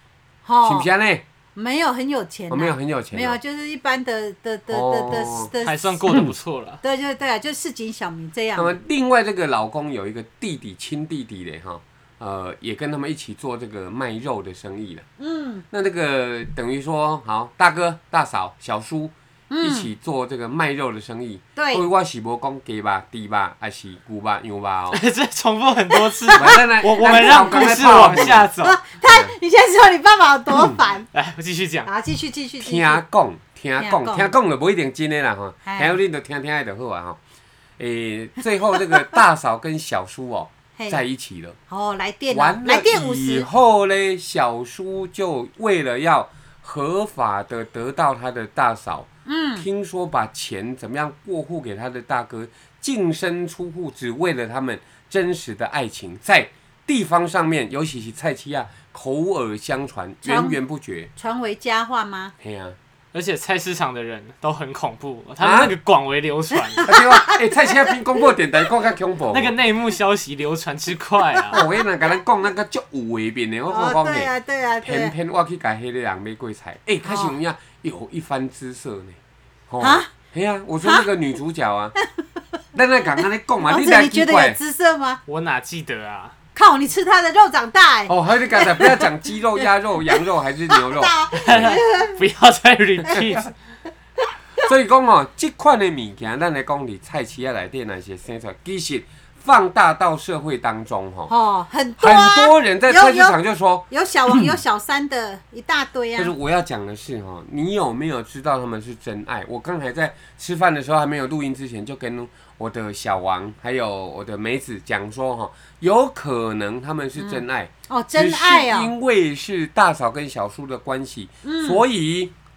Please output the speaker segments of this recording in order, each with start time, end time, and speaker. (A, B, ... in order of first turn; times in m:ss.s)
0:00.4-0:00.9 A
0:00.6-0:01.2 B
0:01.6-0:06.2 A
0:02.5-0:03.4 B
0:04.7-0:05.5 B
0:05.6-0:06.8 C
0:06.8-0:08.8 A
0:08.6-0:15.1 B
0:15.2-0:15.6 A
0:15.7-0:25.0 B
0:19.5-0:19.9 A
0:21.6-0:21.8 A
0:24.9-0:28.8 C
0:25.9-0:31.1 A
0:26.3-0:28.5 B
0:29.0-0:29.3 B
0:31.1-0:31.9 C
0:31.9-0:33.0 A
0:32.6-0:37.2 B
0:33.8-0:34.3 A
0:35.6-0:36.0 A
0:37.8-0:41.6 B
0:38.9-0:39.1 A
0:40.8-0:41.0 A
0:41.7-0:43.5 A
0:42.3-1:01.1 B
0:49.2-0:49.7 A
1:00.2-1:00.6 A
1:01.2-1:02.4 A
1:02.4-1:02.8 B
1:03.1-1:06.9 C
1:05.4-1:05.7 B
1:06.7-1:08.0 A
1:06.8-1:09.5 B
1:09.3-1:11.6 C
1:11.5-1:11.8 A
1:11.5-1:14.3 B
1:13.7-1:15.1 A
1:14.8-1:19.2 B
1:17.0-1:17.4 A
1:19.7-1:22.0 B
1:19.8-1:20.1 A
1:22.7-1:24.6 B
1:23.7-1:25.2 A
1:25.3-1:26.3 C
1:26.6-1:29.1 A
1:28.1-1:31.7 B
1:30.7-1:32.2 A
1:31.4-1:33.5 C
1:34.6-1:41.3 B
1:41.3-1:43.4 A
1:42.0-1:44.5 B
1:43.9-1:46.3 A
1:46.2-2:02.3 B
1:57.2-1:58.9 A
2:01.4-2:01.8 A